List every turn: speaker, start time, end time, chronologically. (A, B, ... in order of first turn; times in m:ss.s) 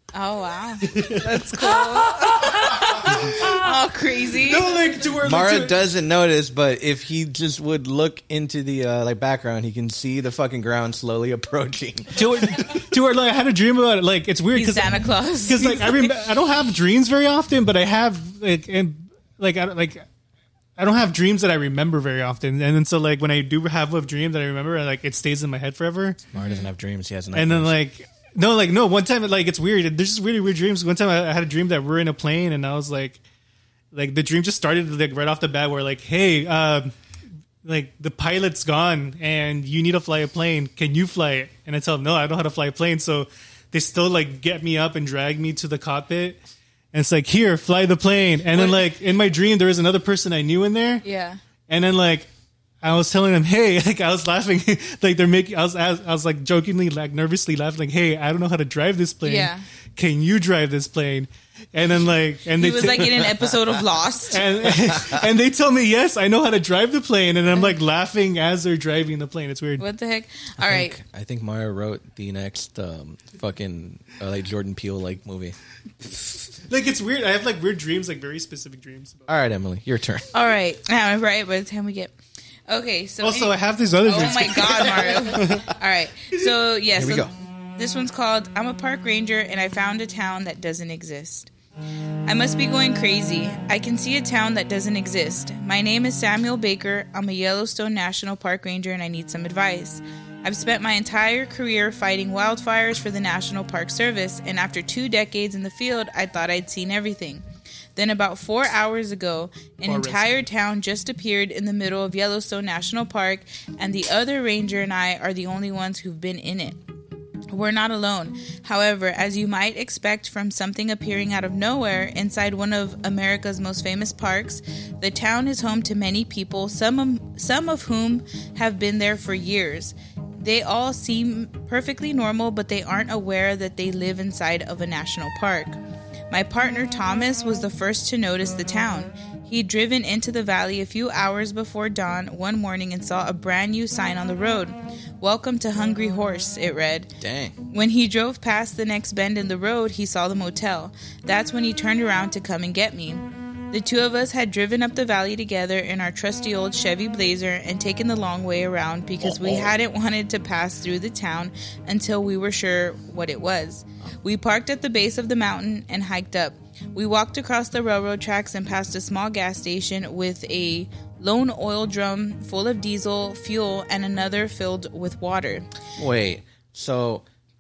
0:00.1-0:04.8 A
0:00.8-0:03.7 B
0:04.3-0:05.8 B
0:05.2-0:12.4 C
0:12.2-0:20.0 B
0:14.6-0:16.2 A
0:20.8-0:26.2 B
0:26.3-0:27.7 C
0:26.4-0:26.7 A
0:27.3-0:33.2 B
0:33.9-0:36.9 B
0:37.6-0:46.4 B
0:46.9-0:51.0 B
0:48.5-0:48.9 A
0:51.0-0:51.4 A
0:51.7-0:52.3 B
0:52.8-1:03.3 B
0:59.2-0:59.6 A
1:02.6-1:04.5 A
1:04.3-1:09.8 B
1:04.9-1:05.2 C
1:09.8-1:11.0 A
1:10.6-1:15.6 C
1:16.6-1:19.3 B
1:19.3-1:20.3 C
1:20.3-1:22.1 A
1:22.7-1:31.5 A
1:23.2-1:25.6 B
1:27.0-1:27.3 C
1:32.3-1:47.4 A
1:48.0-1:56.8 A
1:49.8-1:50.5 B
1:57.5-2:15.8 A
2:16.3-2:27.1 A
2:27.2-2:27.6 C
2:27.7-2:55.7 A
2:39.2-2:39.7 C
2:56.0-2:57.2 C